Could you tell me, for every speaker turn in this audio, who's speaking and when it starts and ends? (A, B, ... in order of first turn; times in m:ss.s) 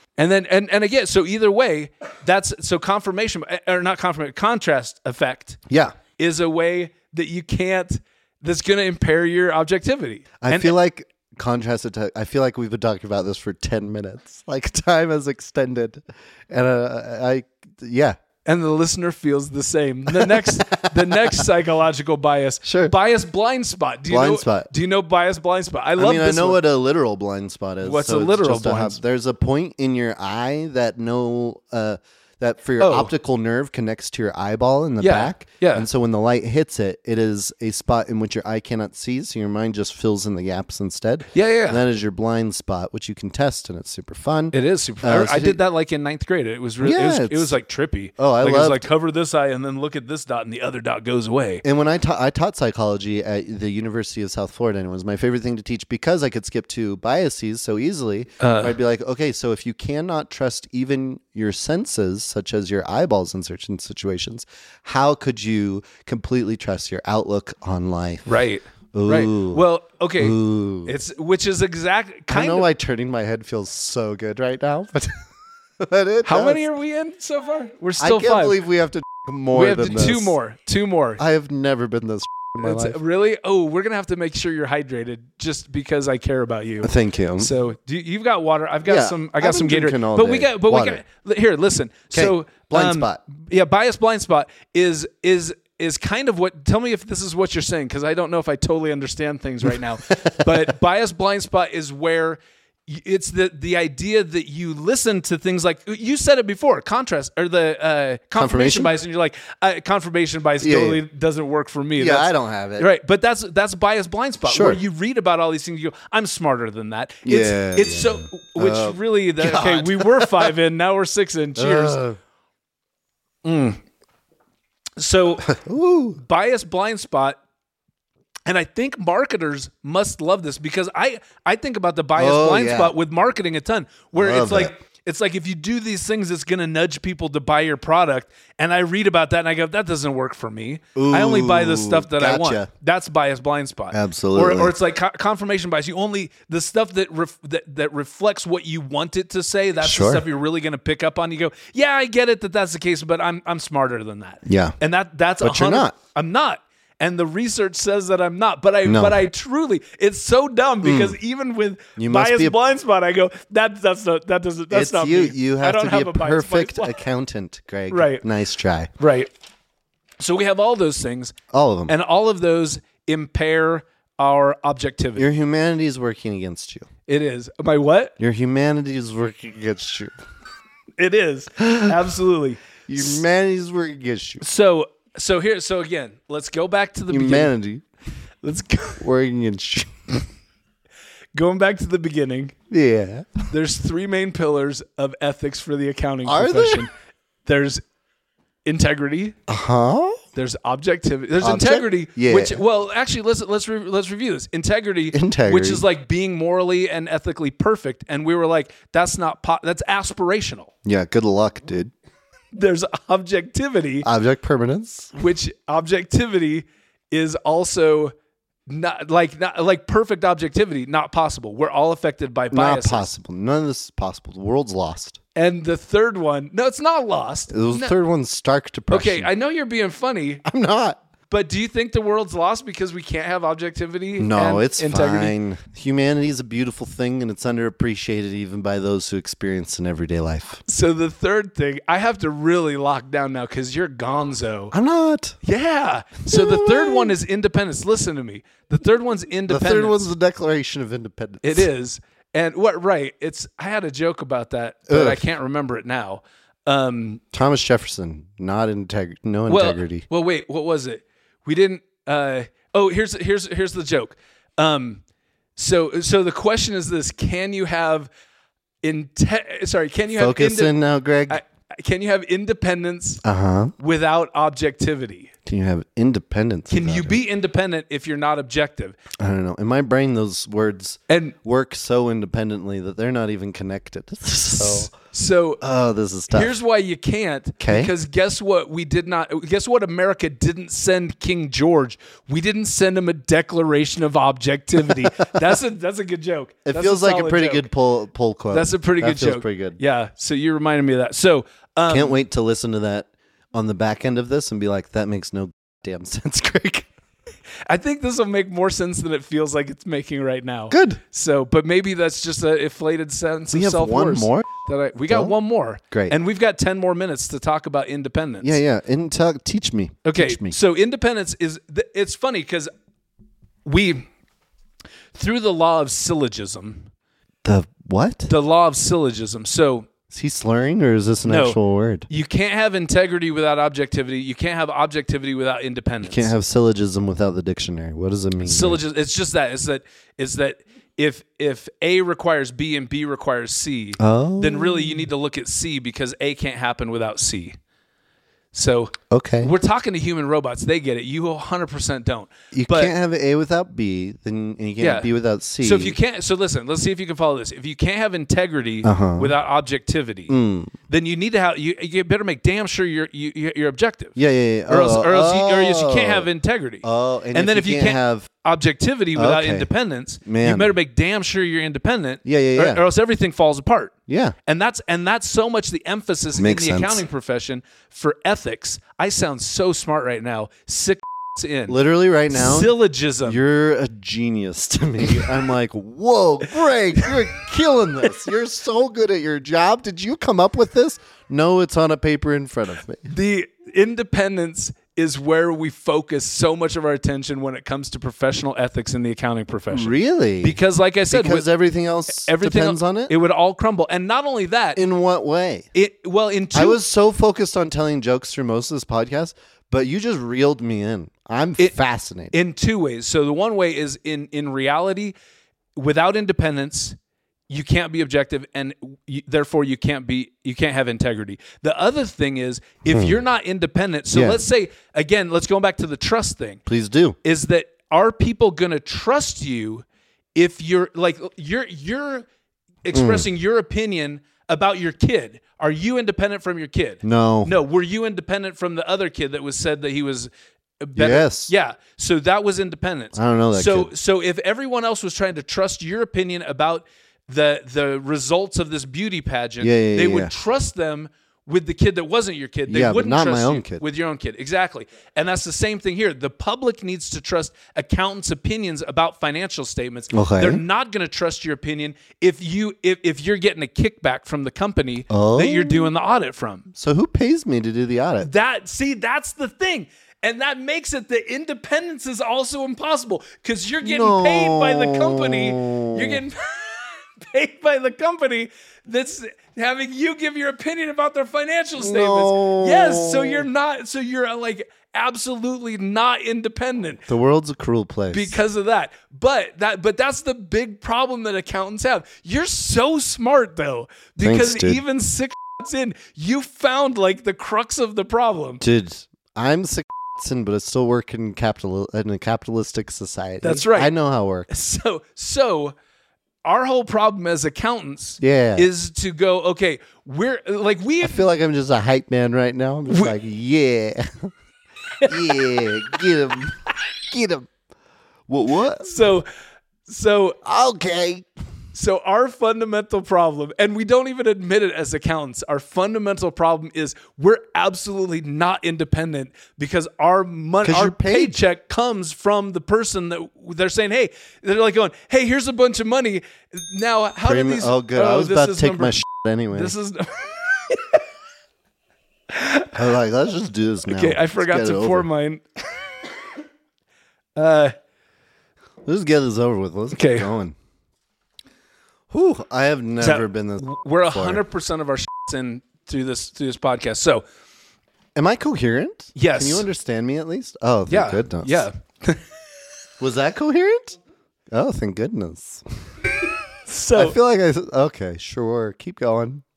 0:00.2-0:05.6 A
0:05.7-0:05.9 B
0:06.2-0:10.7 A
0:10.4-0:18.2 B
0:18.4-0:26.6 A
0:20.1-0:21.4 B
0:22.6-0:22.9 B
0:24.1-0:24.7 B
0:26.0-0:45.6 B
0:27.8-0:29.0 A
0:32.8-0:33.1 A
0:35.0-0:35.9 A
0:41.3-0:41.8 A
0:44.5-0:51.6 A
0:46.8-0:47.5 B
0:48.2-0:48.8 B
0:51.6-1:08.3 B
0:58.4-0:58.8 A
1:08.2-1:12.7 A
1:08.9-1:09.6 B
1:10.2-1:10.9 B
1:12.3-1:15.1 B
1:15.8-1:16.6 B
1:16.2-1:18.6 A
1:18.0-1:20.3 B
1:19.5-1:21.2 A
1:21.2-1:23.0 B
1:22.6-2:02.0 A
1:26.8-1:27.5 B
1:28.8-1:31.0 B
1:32.1-1:33.2 B
1:40.1-1:40.7 B
1:48.4-1:48.9 B
1:50.6-1:51.0 B
1:52.0-1:52.9 B
1:54.4-1:54.8 B
1:57.2-2:00.5 B
2:01.6-2:02.2 B
2:03.4-2:03.8 A
2:05.0-2:05.5 A
2:05.4-2:06.2 B
2:06.2-2:07.4 A
2:08.4-2:47.0 A
2:12.2-2:12.9 B
2:14.2-2:14.7 B
2:21.0-2:22.7 B
2:23.9-2:24.7 B
2:29.8-2:30.2 B
2:34.4-2:34.8 B
2:35.4-2:35.9 B
2:38.8-2:39.2 B
2:40.8-2:41.2 B
2:42.0-2:42.6 B
2:44.7-2:48.9 B
2:47.9-2:48.2 A
2:49.0-2:49.3 A
2:50.2-2:51.3 A
2:51.5-2:51.9 B
2:51.9-2:55.3 A
2:55.2-2:56.9 B
2:57.1-2:58.1 A
2:58.2-3:00.1 B
3:01.0-3:03.2 A
3:01.6-3:02.0 B
3:02.9-3:04.4 B
3:04.4-3:07.5 A
3:07.1-3:07.8 B
3:08.4-3:09.0 A
3:09.0-3:09.9 B
3:11.3-3:12.5 A
3:12.7-3:13.5 B
3:13.5-3:16.9 A
3:16.2-3:16.8 B
3:17.4-3:17.8 A
3:18.6-3:19.4 A
3:19.5-3:20.2 B
3:20.3-3:30.7 A
3:21.4-3:22.6 B
3:25.1-3:25.8 B
3:30.8-3:31.9 B
3:32.5-3:34.1 A
3:34.0-3:35.1 B
3:35.2-3:38.1 A
3:38.7-3:43.1 A
3:42.5-3:45.2 B
3:45.3-3:47.9 A
3:47.5-3:49.3 B
3:48.9-3:50.4 A
3:50.4-3:51.0 B
3:51.3-3:55.3 A
3:54.2-4:00.6 B
4:00.7-4:04.7 A
4:04.7-4:05.4 B
4:05.4-4:10.1 A
4:06.3-4:07.1 B
4:09.5-4:11.7 B
4:11.4-4:17.2 A
4:14.9-4:15.2 B
4:17.3-4:20.0 B
4:19.5-4:25.0 A
4:25.6-4:28.1 A
4:28.8-4:30.7 A
4:30.1-4:31.4 B
4:31.3-4:33.2 A
4:33.2-4:33.7 B
4:33.8-4:35.3 A
4:35.4-4:37.2 B
4:36.7-4:39.0 A
4:39.2-4:44.9 B
4:41.1-4:41.3 A
4:44.6-4:45.6 A
4:45.6-4:46.5 B
4:46.3-4:57.7 A
4:47.6-4:47.9 B
4:56.6-4:59.8 B
4:58.5-5:02.2 A
5:01.9-5:06.9 B
5:07.7-5:18.6 A
5:10.7-5:11.0 B
5:13.5-5:14.5 B
5:15.1-5:15.3 B
5:15.9-5:16.2 B
5:18.4-5:20.6 B
5:20.0-5:22.7 A
5:23.6-5:24.1 A
5:25.1-5:26.9 A
5:27.4-5:28.3 B
5:28.3-5:29.9 A
5:30.1-5:32.1 B
5:31.2-5:31.6 A
5:32.1-5:36.3 A
5:36.0-5:38.8 B
5:38.4-5:47.6 A
5:44.0-5:45.1 B
5:48.5-5:52.9 A
5:49.1-5:49.5 B
5:52.5-5:56.0 B
5:54.8-5:55.1 A
5:55.6-6:00.3 A
5:58.8-5:59.3 B
6:00.3-6:00.7 B
6:00.9-6:04.2 A
6:04.2-6:06.3 B
6:04.7-6:13.9 A
6:06.8-6:08.3 B
6:09.1-6:09.7 B
6:10.2-6:10.7 B
6:12.2-6:12.8 B
6:14.1-6:14.3 B
6:14.4-6:21.8 A
6:16.3-6:17.0 B
6:21.7-6:22.7 B
6:22.3-6:23.4 A
6:23.2-6:33.1 B
6:33.1-6:41.4 A
6:39.7-6:40.6 B
6:41.1-6:43.1 B
6:42.1-6:44.8 A
6:44.8-6:45.7 B
6:45.7-6:46.8 A
6:46.5-6:52.3 B
6:52.3-6:55.1 A
6:55.8-6:57.0 A
6:57.5-7:06.6 A
7:02.9-7:03.2 B
7:04.1-7:04.4 B
7:06.7-7:07.2 B
7:07.2-7:12.2 A
7:12.8-7:20.3 A
7:12.9-7:13.3 B
7:17.0-7:17.5 B
7:20.8-7:46.7 A
7:21.0-7:21.5 B
7:23.1-7:23.9 B
7:29.6-7:30.3 B
7:32.7-7:33.8 B
7:40.1-7:40.6 B
7:45.1-7:45.9 B
7:46.7-7:48.3 B
7:48.2-8:07.0 A
7:53.8-7:56.2 B
8:01.8-8:03.5 B
8:07.1-8:08.4 B
8:08.1-8:18.6 A
8:14.2-8:14.8 B
8:18.6-8:24.5 B
8:23.4-8:23.9 A
8:24.5-8:25.7 A
8:26.4-8:31.2 A
8:28.2-8:28.7 B
8:31.0-8:34.3 B
8:35.0-8:36.0 A
8:35.0-8:37.5 B
8:38.3-8:38.9 B
8:38.8-8:39.3 A
8:39.9-8:40.4 A
8:40.4-8:41.3 B
8:41.7-8:59.0 A
8:50.6-8:51.4 B
8:57.2-8:59.7 B
8:59.5-9:01.0 A
9:02.3-9:02.8 A
9:02.7-9:05.1 B
9:03.9-9:05.4 A
9:07.4-9:07.7 A
9:08.8-9:10.6 B
9:09.9-9:10.3 A
9:12.1-9:14.4 B
9:13.0-9:17.2 A
9:18.1-9:21.6 B
9:19.2-9:19.7 A
9:20.9-9:22.2 A
9:23.0-9:24.0 B
9:24.5-9:25.6 B
9:26.7-9:27.2 A
9:26.9-9:29.4 B